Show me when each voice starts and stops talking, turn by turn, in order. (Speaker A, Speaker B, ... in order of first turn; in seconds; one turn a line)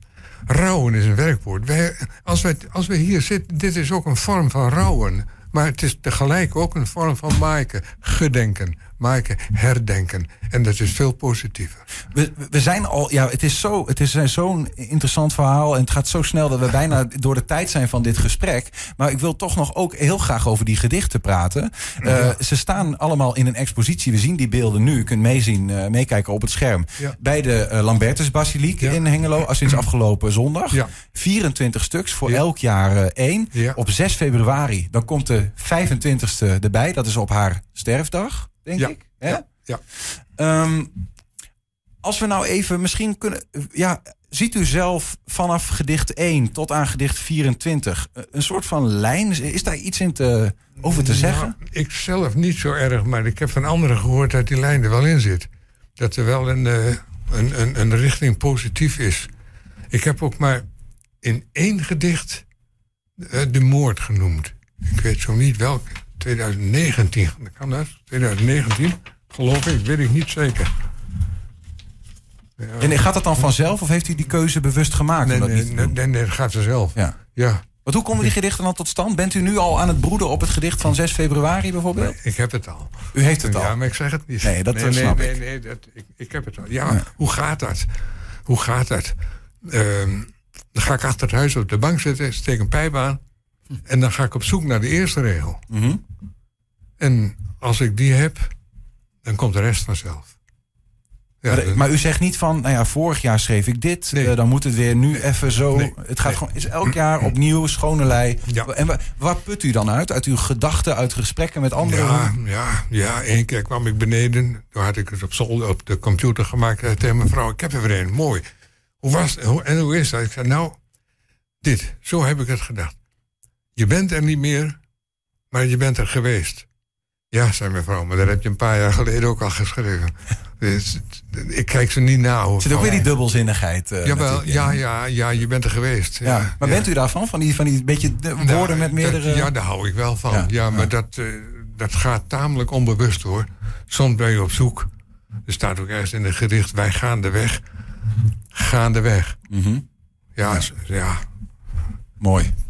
Speaker A: 0.5-11.8
Speaker B: 12.1-41.0
Speaker A: 22.0-22.4
Speaker A: 33.5-33.8
Speaker A: 38.8-39.8
Speaker B: 42.0-51.6
Speaker A: 50.8-59.3
Speaker A: 59.9-60.6
Speaker A: 61.2-62.5
Speaker A: 63.2-70.7
Speaker A: 72.6-73.0
Speaker B: 72.8-75.9
Speaker A: 75.2-77.7
Speaker B: 77.8-82.2
Speaker A: 82.0-87.9
Speaker B: 83.1-83.8
Speaker B: 84.4-85.4
Speaker A: 88.5-93.2
Speaker A: 93.8-95.6
Speaker B: 95.7-96.0
Speaker A: 97.0-98.5
Speaker A: 99.2-100.3
Speaker A: 101.4-101.8
Speaker B: 101.5-112.3
Speaker A: 105.2-107.0
Speaker A: 111.8-118.4
Speaker A: 119.0-120.8
Speaker A: 121.6-123.0
Speaker A: 123.8-124.8
Speaker A: 125.5-126.7
Speaker A: 127.3-133.1
Speaker B: 132.6-134.8
Speaker A: 134.0-136.9
Speaker B: 136.2-139.5
Speaker A: 138.4-144.9
Speaker B: 140.3-140.9
Speaker A: 145.5-147.6
Speaker A: 148.5-149.4
Speaker B: 149.5-149.8
Speaker A: 150.4-151.2
Speaker B: 152.2-152.5